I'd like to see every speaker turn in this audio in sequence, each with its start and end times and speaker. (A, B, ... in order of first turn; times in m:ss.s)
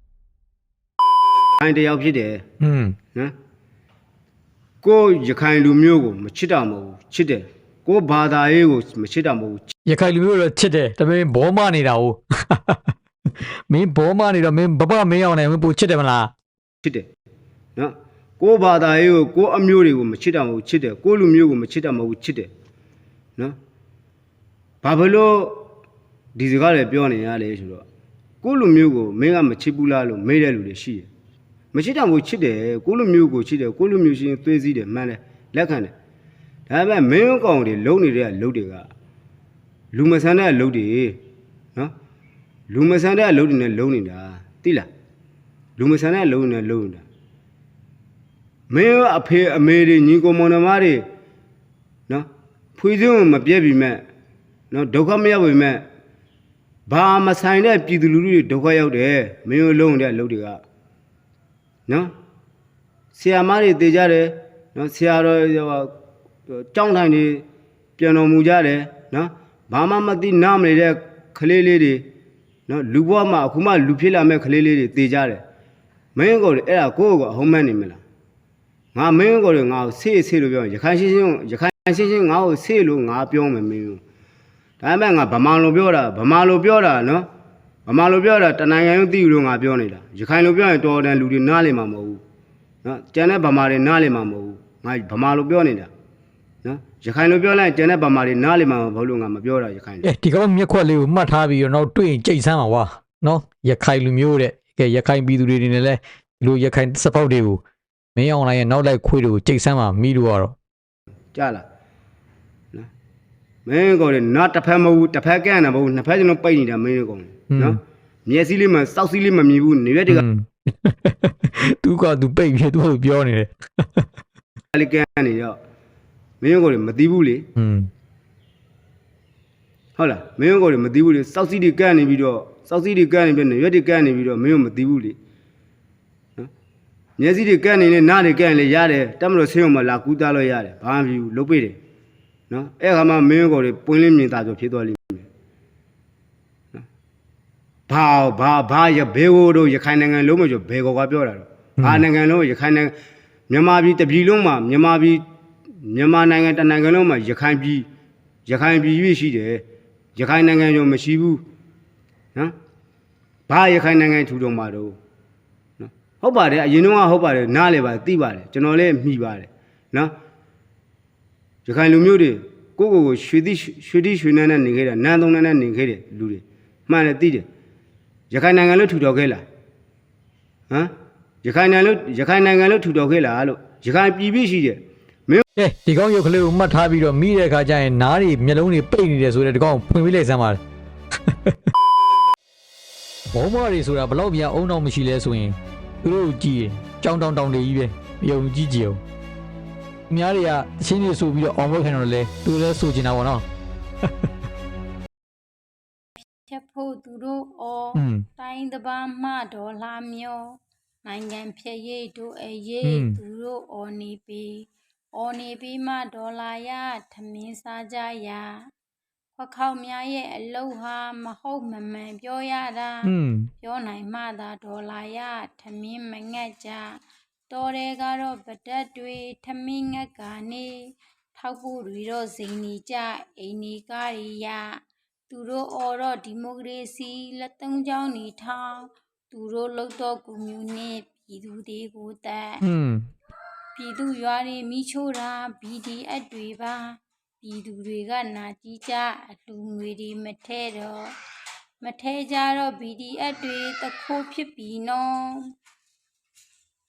0:01.6-0:02.4 A
0:02.6-0:03.0 B
0:04.8-0:09.7 A
0:09.8-0:12.9 B
0:13.7-0:16.3 B
0:17.8-0:22.5 A
0:24.8-0:25.6 A
0:26.4-0:27.8 A
0:28.4-0:31.1 A
0:31.7-0:35.9 A
0:36.7-0:38.9 A
0:39.9-0:41.2 A
0:42.7-0:44.9 A
0:45.8-0:47.0 A
0:48.7-0:51.0 A
0:52.1-0:54.0 A
0:54.7-0:55.8 A
0:56.9-1:00.6 A
1:01.9-1:02.1 A
1:03.1-1:05.9 A
1:06.5-1:07.4 A
1:08.0-1:12.0 A
1:12.7-1:15.4 A
1:16.2-1:18.0 A
1:18.9-1:24.0 A
1:24.8-1:27.3 A
1:27.9-1:32.2 A
1:32.8-1:35.9 A
1:36.6-1:40.1 A
1:40.0-1:47.6 B
1:48.2-1:50.5 B
1:51.3-1:51.6 A
1:53.6-2:00.2 A
1:57.5-1:57.8 B
2:00.1-2:04.1 B
2:04.7-2:05.6 A
2:06.4-2:07.5 A
2:07.6-2:07.9 B
2:10.0-2:15.2 A
2:17.2-2:21.8 A
2:22.5-2:25.3 A
2:27.9-2:32.9 A
2:31.8-2:32.0 B
2:33.5-2:35.2 A
2:35.8-2:37.9 A
2:38.4-2:39.6 A
2:40.2-2:41.4 A
2:43.5-2:45.0 A
2:45.8-2:50.1 A
2:51.6-2:57.5 A
2:58.3-2:59.4 A
3:01.4-3:05.4 A
3:05.6-3:10.6 B
3:11.3-3:11.7 B
3:13.3-3:19.0 B
3:20.1-3:23.4 B
3:26.2-3:30.4 C
3:28.0-3:28.2 B
3:31.0-3:34.6 C
3:32.8-3:33.2 B
3:35.2-3:38.5 C
3:39.4-3:50.7 C
3:43.0-3:43.5 B
3:51.4-3:54.7 C
3:55.3-4:02.6 C
4:02.6-4:03.1 B
4:03.8-4:11.1 C
4:11.8-4:15.5 C